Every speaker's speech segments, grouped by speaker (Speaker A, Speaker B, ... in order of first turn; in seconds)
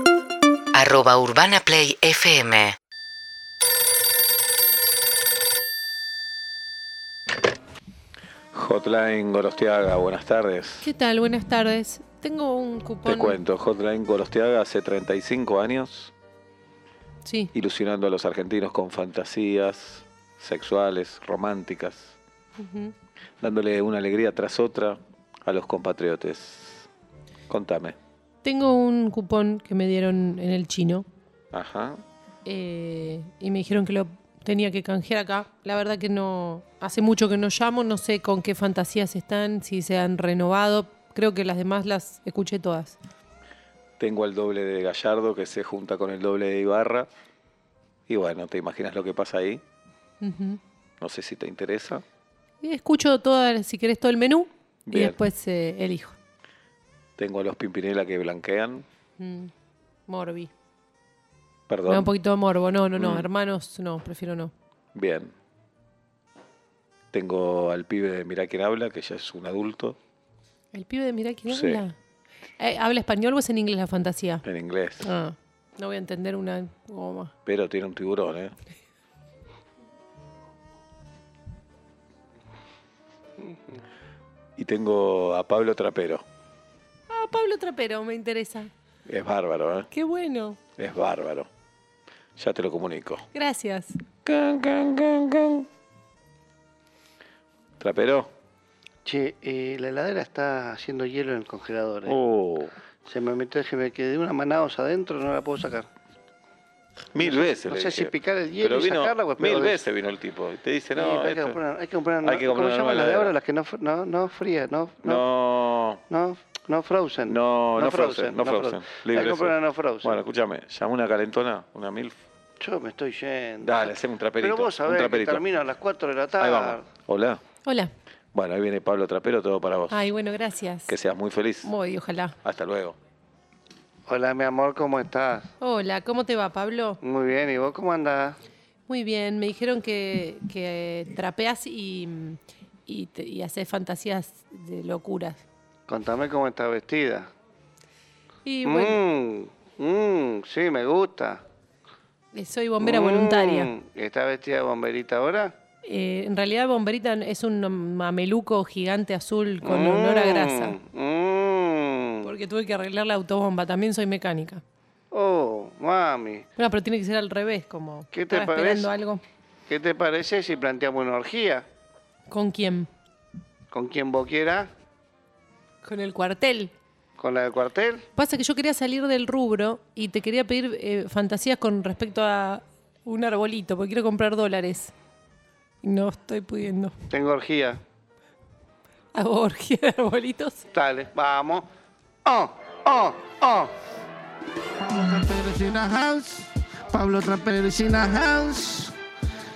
Speaker A: 0.7-2.8
Speaker B: 8.5-10.9, 13.1-16.1, 17.5-22.2, 23.4-26.9, 27.5-28.0, 31.5-32.0, 44.0-47.1, 48.1-49.6, 51.0-52.0, 54.9-55.2, 57.2-58.9, 61.7-62.1, 63.0-63.3, 64.9-65.3, 67.1-70.0, 71.5-71.8, 74.4-75.1, 77.4-78.5, 84.6-86.2, 89.0-89.9, 90.8-91.5, 92.3-93.2, 94.2-95.7, 97.8-98.3, 102.0-102.7, 107.1-111.6, 112.2-113.3, 115.0-116.0, 117.2-122.2, 123.6-125.4, 126.4-127.4, 128.3-130.1, 130.9-131.7, 132.4-133.0
Speaker C: 10.8-13.4, 17.2-17.5, 22.6-22.9, 28.4-31.1, 32.5-43.0, 50.2-50.6, 52.6-56.2, 59.2-59.5, 60.1-60.5, 61.9-64.5, 70.7-72.0, 72.6-74.4, 75.0-77.3, 87.1-88.7, 89.9-90.6, 93.3-93.9, 127.6-127.9, 129.9-130.9, 131.6-132.4, 135.6-137.0, 138.9-145.4, 148.4-149.0, 152.3-153.7, 155.8-160.8, 162.2-164.6, 166.6-169.2, 172.3-172.9, 175.8-176.7, 178.2-184.9, 185.8-186.9, 189.1-190.6
Speaker D: 99.0-102.2, 103.1-105.9, 107.2-109.8, 110.9-115.2, 116.1-120.1, 122.6-126.8, 134.1-135.5, 137.0-138.4, 145.9-147.3, 148.6-151.4, 152.8-155.5, 159.6-162.3, 165.1-166.5, 168.1-168.9, 169.7-171.7, 173.7-174.7, 177.2-178.0, 187.1-187.8, 190.7-191.7, 192.2-193.7
Speaker E: 194.8-198.9